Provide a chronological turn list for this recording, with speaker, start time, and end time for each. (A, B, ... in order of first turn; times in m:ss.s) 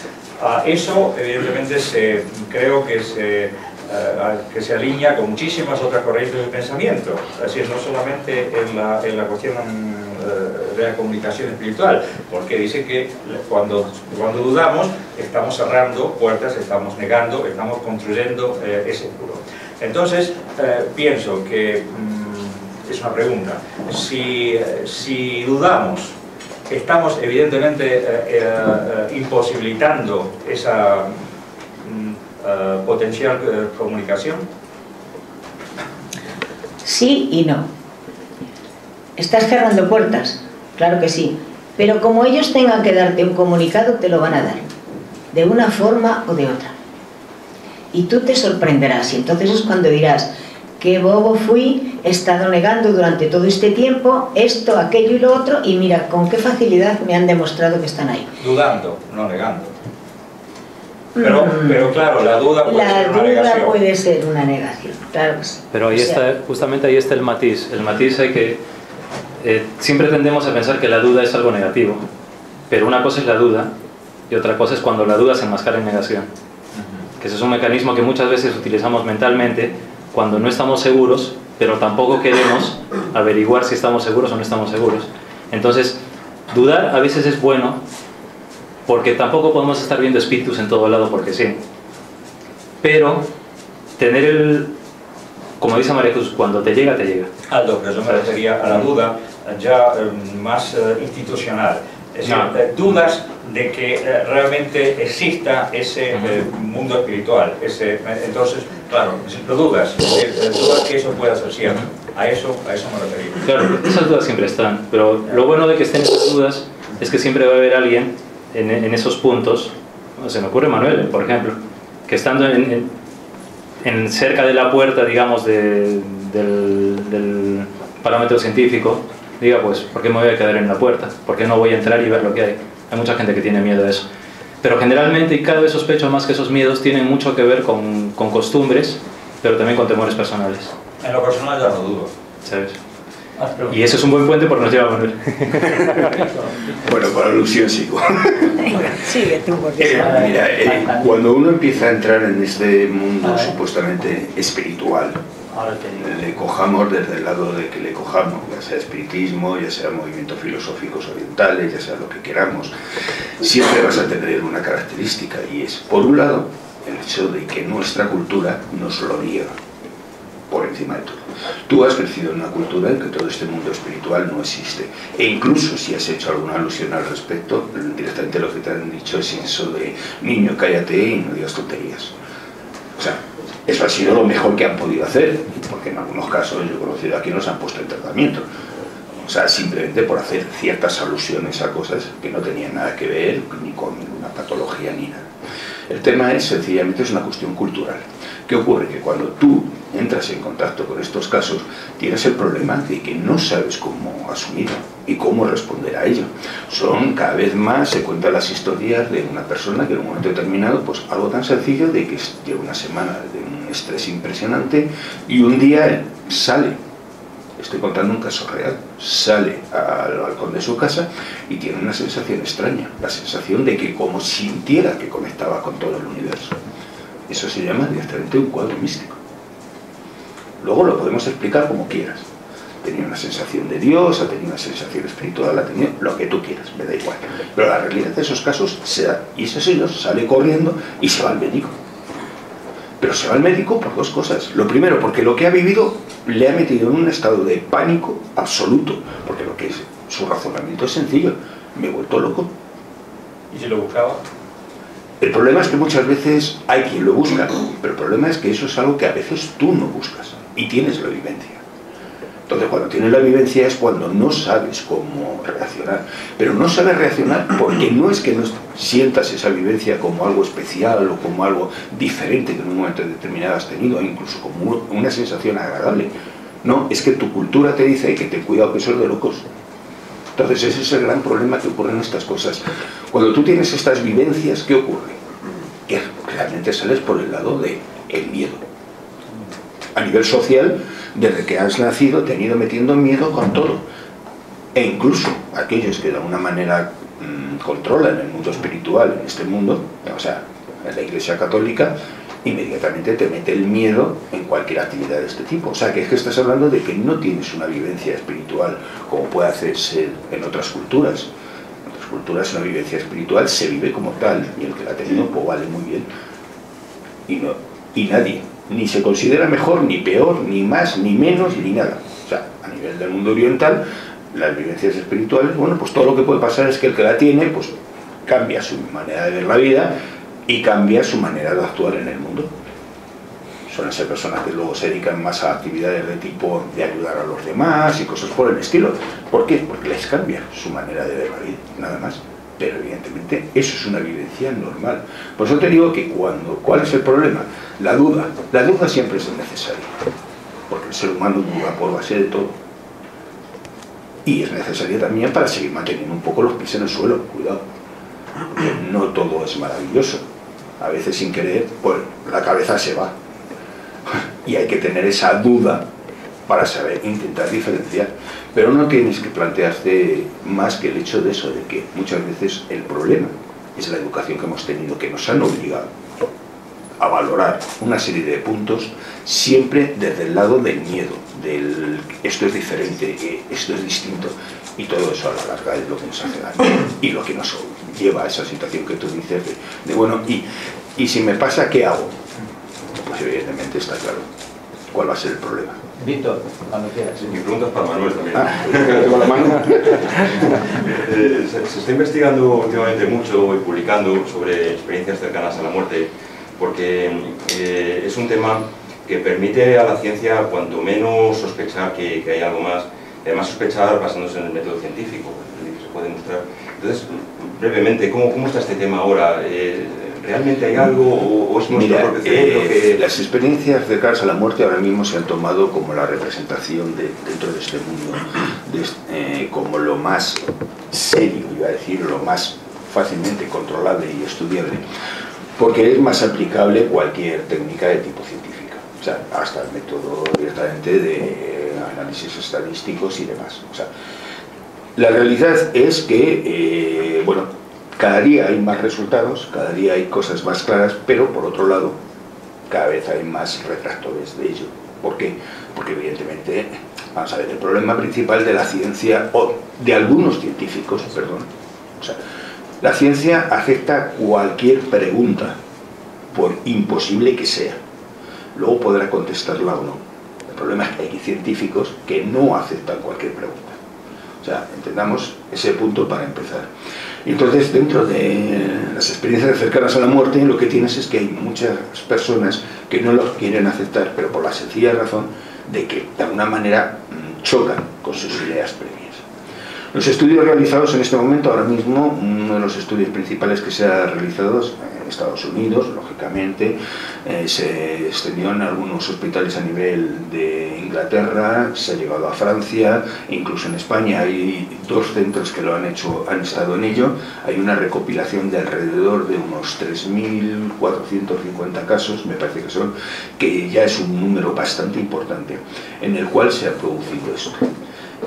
0:00.4-0:26.1 A
0:26.7-0:31.2 A
0:31.8-0:34.5 A
0:36.8-0:37.7 B
0:39.2-0:44.7 B
0:45.3-0:46.8 B
0:47.9-0:58.3 B
0:58.4-0:59.7 A
1:01.2-1:02.0 B
1:01.2-1:03.8 A
1:02.6-1:06.2 B
1:05.7-1:08.6 C
1:09.4-1:12.1 C
1:12.7-1:13.7 C
1:14.3-1:16.3 C
1:17.2-1:26.0 C
1:26.5-1:27.8 C
1:28.9-1:31.6 C
1:32.8-1:33.3 C
1:34.0-1:34.7 C
1:35.6-1:37.3 C
1:37.5-1:53.4 A
1:42.2-1:42.5 C
1:53.4-2:02.9 C
2:03.8-2:14.1 C
2:14.6-2:20.7 C
2:21.0-2:22.1 A
2:22.4-2:22.8 C
2:23.4-2:24.0 D
2:23.7-2:26.2 C
2:26.2-2:26.9 D
2:26.8-2:28.9 E
2:28.6-2:30.3 B
2:29.8-2:35.2 E
2:29.9-2:31.3 D
2:33.2-2:33.6 D
2:35.5-2:36.2 D
2:36.0-2:42.7 E
2:43.4-2:49.6 E
2:50.5-3:02.1 E
3:03.0-3:08.5 E
3:09.2-3:15.3 E
3:15.9-3:36.8 E
3:37.6-3:46.6 E
3:47.3-3:49.2 E
3:50.6-3:52.3 E
3:52.8-4:01.8 E
4:03.0-4:12.5 E
4:13.5-4:14.2 A
4:15.2-4:21.6 E
4:22.5-4:36.1 E
4:36.6-4:39.4 E
4:40.4-4:45.2 E
4:45.9-4:48.6 E
4:50.0-4:53.8 E
4:54.8-5:11.3 E
5:11.8-5:16.1 E
5:17.3-5:27.7 E
5:28.3-5:32.5 E
5:33.7-5:50.0 E
5:50.7-5:52.6 E
5:54.2-5:57.6 E
5:58.5-6:00.2 E
6:00.8-6:03.2 E
6:04.1-6:05.9 E
6:06.5-6:15.9 E
6:17.0-6:32.2 E
6:33.0-6:34.3 E
6:34.9-6:35.8 E
6:36.0-6:37.3 D
6:37.1-7:03.0 F
6:38.4-6:40.1 E
7:01.7-7:14.8 E
7:15.6-7:23.9 E
7:25.0-7:32.0 E
7:32.7-7:42.2 E
7:42.8-7:45.6 E
7:46.3-7:47.8 E
7:48.6-7:53.8 E
7:54.4-7:56.7 E
7:57.2-8:09.2 E
8:09.9-8:37.7 E